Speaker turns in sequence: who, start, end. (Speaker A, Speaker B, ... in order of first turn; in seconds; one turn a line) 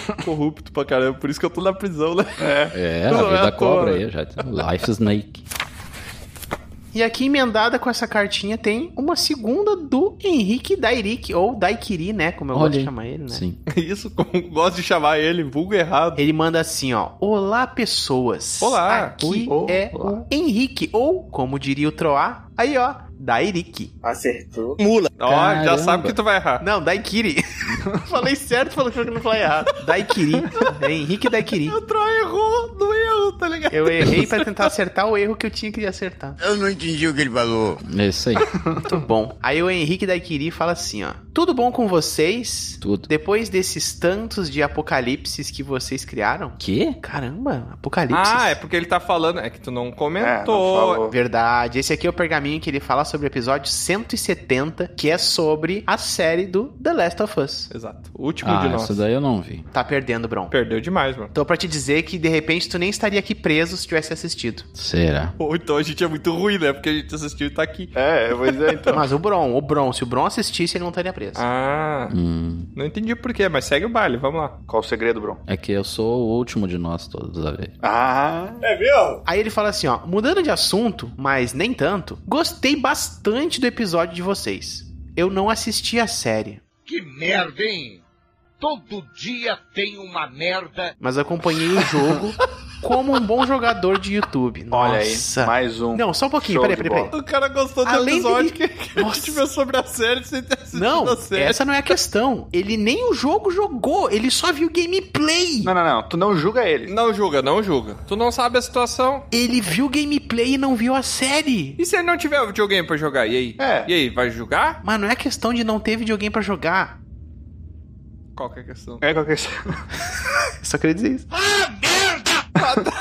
Speaker A: 0.1-2.5
Speaker B: 2.4-2.7
Speaker C: 2.7-5.4
Speaker A: 3.1-4.0
Speaker D: 6.9-13.4
Speaker C: 12.5-13.6
Speaker A: 13.7-16.2
Speaker D: 16.1-23.9
Speaker A: 18.6-20.2
Speaker B: 19.5-19.7
Speaker E: 24.0-25.1
Speaker A: 25.1-26.6
Speaker C: 25.2-26.2
Speaker D: 26.6-31.8
Speaker A: 31.6-34.6
Speaker D: 33.7-36.4
Speaker E: 36.4-37.8
Speaker C: 37.8-38.5
Speaker D: 38.9-48.5
Speaker C: 42.8-43.1
Speaker C: 46.6-47.0
Speaker A: 48.1-51.0
Speaker B: 50.2-51.1
Speaker D: 51.1-57.7
Speaker A: 57.7-59.0
Speaker C: 58.4-59.6
Speaker D: 59.7-60.5
Speaker A: 60.5-61.3
Speaker D: 61.3-64.7
Speaker C: 64.8-65.3
Speaker A: 65.4-67.9
Speaker B: 67.9-69.0
Speaker A: 68.5-68.9
Speaker D: 68.9-71.4
Speaker A: 71.3-72.1
Speaker C: 72.1-72.7
Speaker A: 72.7-74.5
Speaker B: 74.7-75.4
Speaker C: 75.5-77.7
Speaker B: 77.8-78.6
Speaker E: 78.6-79.2
Speaker D: 79.2-86.6
Speaker E: 86.8-88.0
Speaker E: 88.6-90.9
Speaker D: 91.0-97.1
Speaker B: 94.7-97.1
Speaker A: 97.1-101.6
Speaker D: 97.8-99.4
Speaker D: 100.7-105.7
Speaker B: 105.6-106.9
Speaker A: 106.9-109.2
Speaker D: 109.3-111.8
Speaker A: 111.8-114.8
Speaker B: 113.6-113.9
Speaker D: 114.8-116.9
Speaker A: 118.3-119.0
Speaker B: 119.0-119.8
Speaker D: 120.6-121.2
Speaker E: 121.5-122.2